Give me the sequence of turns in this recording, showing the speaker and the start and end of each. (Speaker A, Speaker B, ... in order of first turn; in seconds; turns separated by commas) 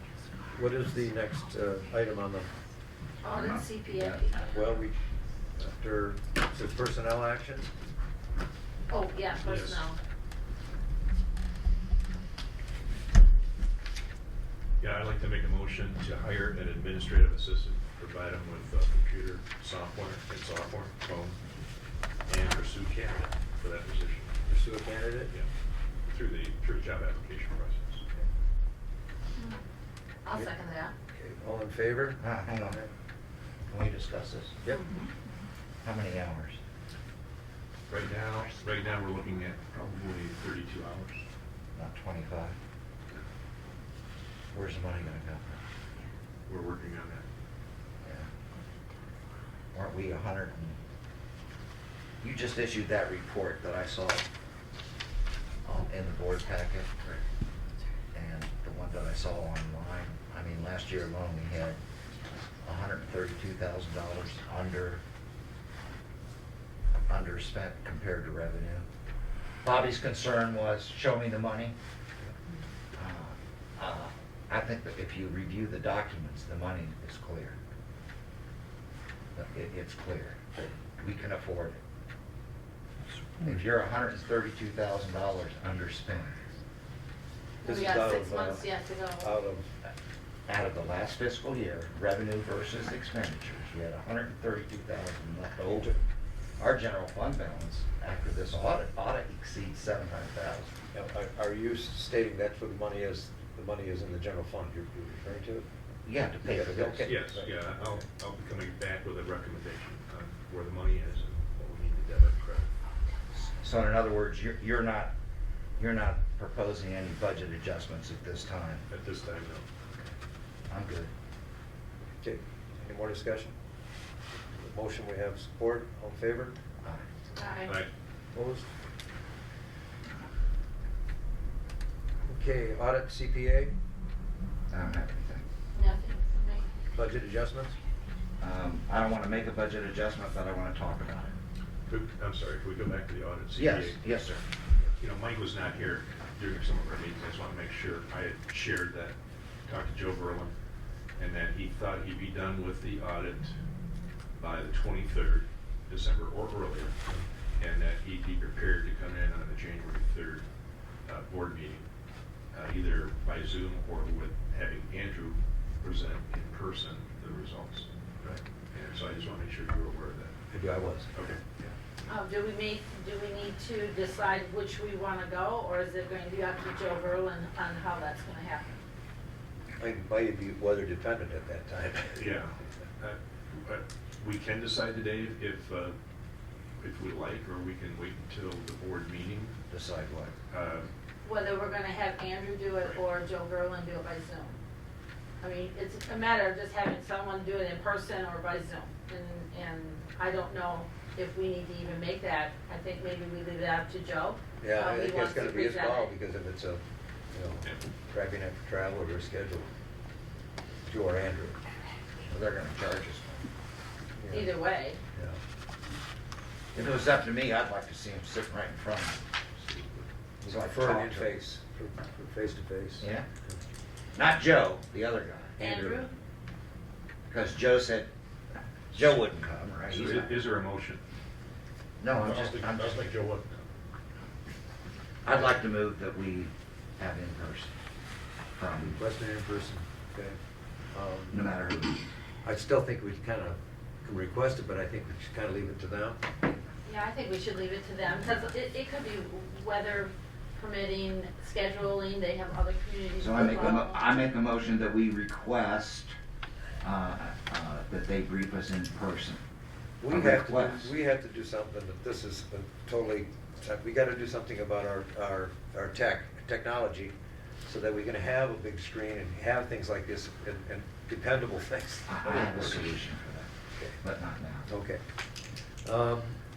Speaker A: 0.5-2.5, Speaker B: 3.2-4.6, Speaker C: 3.4-4.2, Speaker A: 4.5-5.0, Speaker A: 5.6-7.7, Speaker B: 8.9-10.0, Speaker D: 9.4-9.8, Speaker D: 14.8-21.4, Speaker D: 22.3-24.3, Speaker A: 24.5-25.3, Speaker D: 26.1-28.0, Speaker B: 30.2-30.9, Speaker A: 31.1-32.9, Speaker C: 32.2-32.8, Speaker C: 33.7-34.5, Speaker B: 34.7-35.1, Speaker C: 35.8-36.6, Speaker D: 37.9-41.2, Speaker C: 41.8-42.6, Speaker C: 44.5-45.6, Speaker D: 46.5-47.3, Speaker C: 48.0-48.3, Speaker C: 49.7-50.8, Speaker C: 52.2-54.3, Speaker C: 55.6-57.2, Speaker C: 58.1-61.8, Speaker C: 62.6-65.0, Speaker C: 67.1-68.9, Speaker C: 69.6-71.8, Speaker C: 73.0-77.6, Speaker C: 79.3-81.8, Speaker C: 83.4-86.4, Speaker B: 87.6-89.3, Speaker A: 87.7-88.7, Speaker A: 89.2-89.7, Speaker C: 90.5-95.9, Speaker A: 95.7-96.0, Speaker C: 96.6-100.7, Speaker A: 100.9-105.7, Speaker C: 106.0-107.1, Speaker A: 106.4-108.0, Speaker D: 107.0-112.7, Speaker C: 113.4-115.1, Speaker C: 115.8-118.9, Speaker D: 118.9-119.7, Speaker C: 120.7-121.1, Speaker A: 122.2-123.5, Speaker A: 124.6-126.6, Speaker B: 127.4-127.8, Speaker A: 128.3-128.7, Speaker A: 132.2-133.7, Speaker C: 134.7-135.4, Speaker B: 135.7-136.7, Speaker A: 136.9-137.8, Speaker C: 138.4-141.3, Speaker D: 141.9-144.0, Speaker C: 143.5-144.4, Speaker D: 145.0-150.5, Speaker D: 151.2-153.6, Speaker D: 154.4-157.0, Speaker D: 157.6-160.5, Speaker D: 161.0-161.9, Speaker D: 162.5-167.9, Speaker D: 168.7-170.3, Speaker A: 170.5-171.1, Speaker D: 171.1-171.7, Speaker B: 172.1-178.8, Speaker A: 179.8-182.3, Speaker D: 182.2-186.0, Speaker D: 186.8-189.6, Speaker C: 189.7-190.3, Speaker D: 190.5-190.9, Speaker B: 191.2-194.6, Speaker B: 195.4-206.1, Speaker A: 204.6-209.7, Speaker A: 210.8-211.6, Speaker C: 212.3-213.4, Speaker A: 214.2-214.5, Speaker B: 214.3-215.0, Speaker A: 215.1-215.4, Speaker C: 216.7-219.2, Speaker A: 220.4-223.6, Speaker C: 220.4-221.3, Speaker C: 223.0-223.3, Speaker C: 224.2-226.1, Speaker B: 225.6-226.1, Speaker C: 227.3-228.1, Speaker C: 228.9-230.4, Speaker D: 229.9-231.0, Speaker C: 232.0-233.0, Speaker D: 232.2-233.7, Speaker C: 235.2-237.7, Speaker C: 238.6-239.0, Speaker A: 238.9-240.4, Speaker A: 240.9-241.4, Speaker C: 241.3-242.0, Speaker A: 242.4-246.2, Speaker B: 246.8-254.0, Speaker C: 248.1-248.5, Speaker C: 253.2-256.1, Speaker C: 256.8-259.4, Speaker A: 260.0-272.9, Speaker C: 260.1-260.9, Speaker C: 272.1-274.7, Speaker A: 274.7-275.0, Speaker A: 275.8-276.4